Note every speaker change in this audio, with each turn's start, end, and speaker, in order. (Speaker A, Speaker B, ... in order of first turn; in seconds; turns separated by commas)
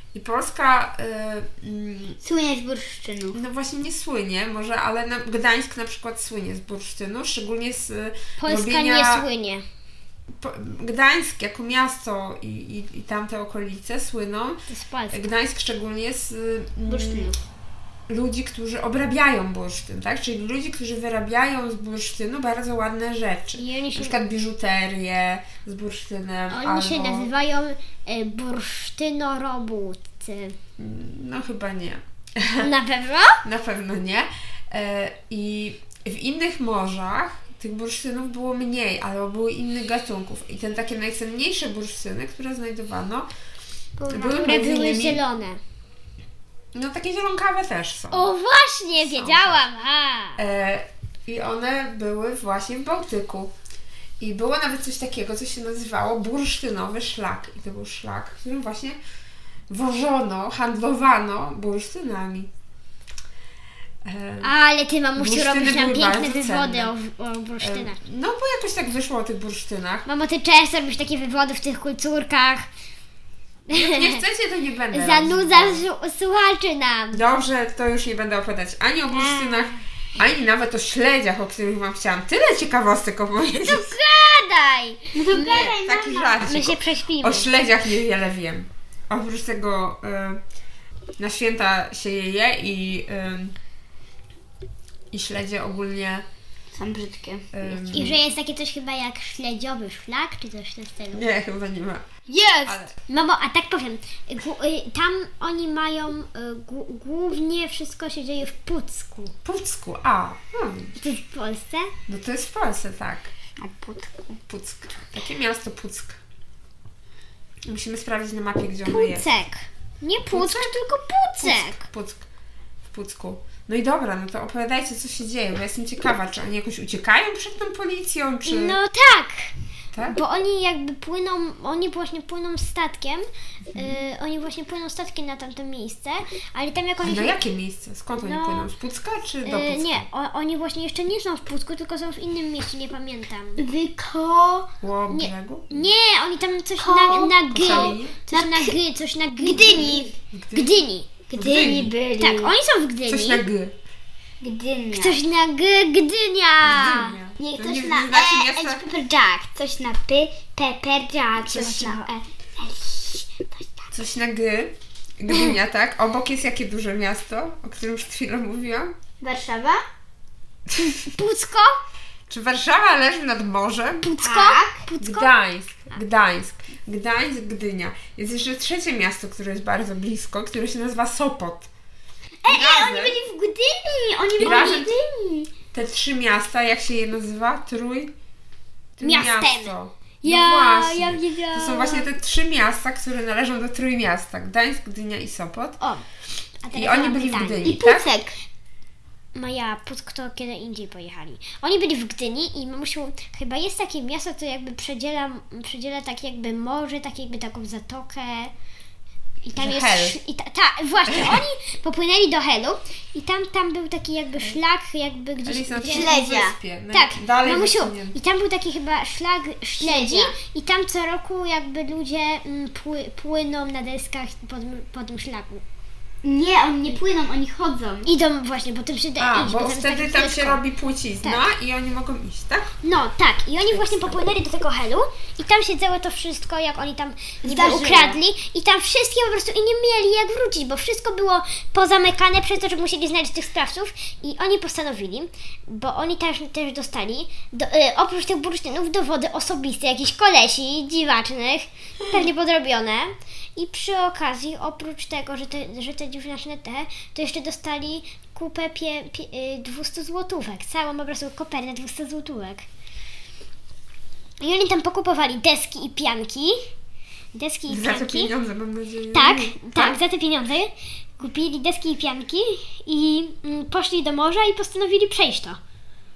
Speaker A: 0.1-2.2, Speaker B: 2.2-3.4, Speaker A: 3.3-9.3, Speaker C: 8.4-9.6, Speaker A: 10.3-14.6, Speaker C: 14.7-15.3, Speaker A: 15.1-17.3, Speaker B: 16.9-17.4, Speaker A: 18.1-27.3, Speaker C: 23.6-24.2, Speaker C: 26.5-30.6, Speaker A: 30.8-32.7, Speaker C: 32.6-33.4, Speaker A: 33.4-43.3, Speaker B: 44.0-45.1, Speaker A: 44.1-45.2, Speaker C: 44.4-45.6, Speaker A: 46.7-48.3, Speaker C: 48.1-50.4, Speaker A: 49.0-49.6, Speaker A: 50.4-53.5, Speaker A: 54.2-59.0, Speaker A: 59.7-62.5, Speaker A: 64.0-64.5, Speaker C: 64.4-68.0, Speaker A: 65.2-66.9, Speaker A: 67.6-70.1, Speaker C: 70.1-72.7, Speaker C: 73.7-74.2, Speaker A: 73.7-75.8, Speaker C: 74.9-77.2, Speaker A: 77.1-84.0, Speaker C: 79.1-79.8, Speaker C: 83.7-85.8, Speaker B: 85.1-86.5, Speaker A: 85.4-90.4, Speaker C: 86.4-87.5, Speaker A: 91.2-93.5, Speaker A: 95.1-96.2, Speaker B: 96.7-98.0, Speaker A: 97.5-98.2, Speaker C: 97.9-101.3, Speaker A: 101.1-102.0, Speaker B: 102.3-102.9, Speaker A: 102.7-102.9, Speaker C: 103.1-109.3, Speaker A: 109.4-111.0, Speaker C: 111.0-111.9, Speaker A: 112.1-113.3, Speaker B: 113.6-114.4, Speaker A: 114.5-116.2, Speaker A: 117.7-119.3, Speaker C: 118.8-121.8, Speaker A: 120.3-120.8, Speaker A: 121.4-122.2, Speaker A: 122.9-128.8, Speaker C: 128.5-129.5, Speaker A: 129.9-130.2, Speaker C: 130.0-137.4, Speaker A: 137.0-140.1, Speaker C: 138.2-138.7, Speaker C: 139.4-143.6, Speaker B: 143.6-144.7, Speaker A: 144.8-145.9, Speaker C: 145.1-151.2, Speaker B: 146.8-148.8, Speaker A: 147.6-148.2, Speaker B: 149.4-150.2, Speaker A: 150.3-150.8, Speaker B: 151.3-152.6, Speaker A: 151.3-151.9, Speaker C: 152.1-153.4, Speaker A: 153.1-153.8, Speaker B: 154.4-155.2, Speaker C: 154.9-157.2, Speaker A: 156.6-158.8, Speaker B: 157.4-163.9, Speaker C: 161.4-162.1, Speaker A: 161.5-161.9, Speaker A: 163.9-168.9, Speaker B: 169.2-169.8, Speaker C: 170.8-171.8, Speaker A: 172.3-174.1, Speaker C: 174.0-175.3, Speaker B: 174.2-174.9, Speaker A: 175.0-181.7, Speaker B: 182.4-185.5, Speaker A: 182.5-183.2, Speaker A: 184.4-184.9, Speaker A: 185.7-188.1, Speaker A: 189.0-195.8, Speaker C: 189.0-192.1, Speaker C: 196.6-197.8, Speaker A: 196.7-198.1, Speaker B: 197.6-198.3, Speaker C: 199.3-208.5, Speaker C: 209.4-216.2, Speaker A: 209.5-210.2, Speaker A: 211.1-211.4, Speaker A: 215.4-218.2, Speaker B: 215.9-216.6, Speaker C: 216.9-225.6, Speaker B: 219.8-220.4, Speaker B: 226.2-228.1, Speaker C: 228.1-230.6, Speaker A: 229.2-232.7, Speaker C: 231.2-231.5, Speaker C: 232.8-262.7, Speaker A: 233.6-234.2, Speaker B: 237.4-238.2, Speaker C: 264.4-266.6, Speaker C: 267.3-268.3, Speaker A: 267.7-270.0, Speaker C: 269.1-275.6